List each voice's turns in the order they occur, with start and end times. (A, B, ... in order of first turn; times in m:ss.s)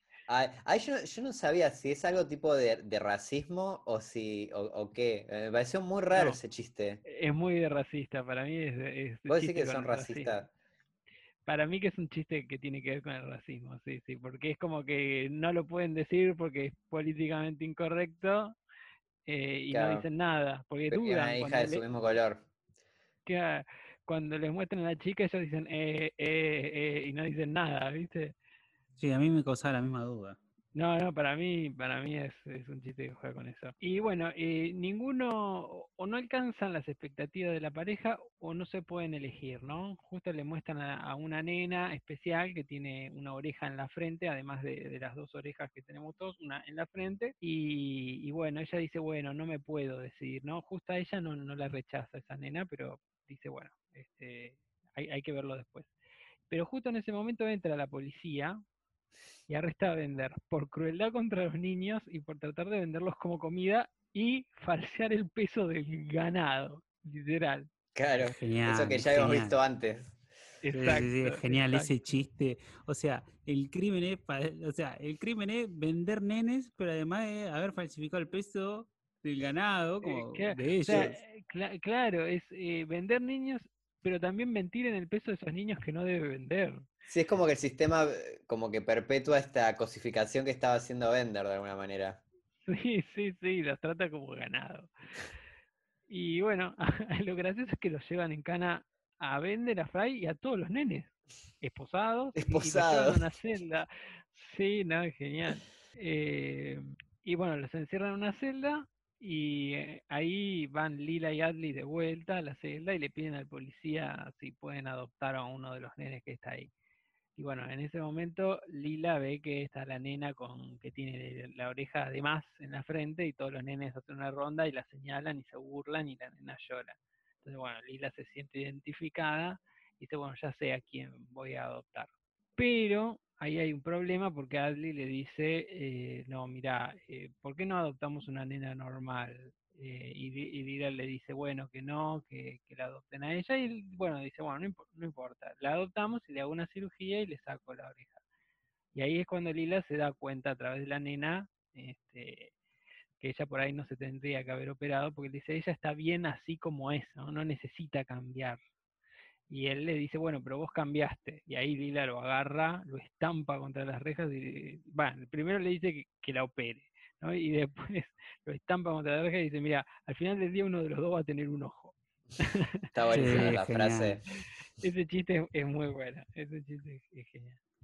0:00.3-0:07.0 A
0:06.1-0:06.4 B
0:07.0-0:10.4 B
0:09.3-0:10.5 A
0:11.4-0:18.6 B
0:19.3-0:21.8 B
0:19.7-0:20.1 A
0:20.9-0:22.4 A
0:23.3-0:28.4 B
0:29.0-0:30.4 C
0:30.7-0:55.9 B
0:56.5-0:58.6 B
0:59.5-1:07.7 B
1:08.0-1:10.2 A
1:08.2-1:09.6 C
1:10.6-1:11.9 B
1:10.7-1:21.2 C
1:20.0-1:26.9 B
1:20.9-1:21.1 A
1:27.1-1:32.2 A
1:32.6-1:34.9 B
1:36.1-1:56.7 B
1:42.4-1:43.3 A
1:57.4-2:28.2 B
2:29.0-2:32.5 B
2:33.2-2:38.6 B
2:39.5-2:53.6 B
2:52.9-2:54.2 A
2:53.1-2:54.2 C
2:54.8-2:57.6 B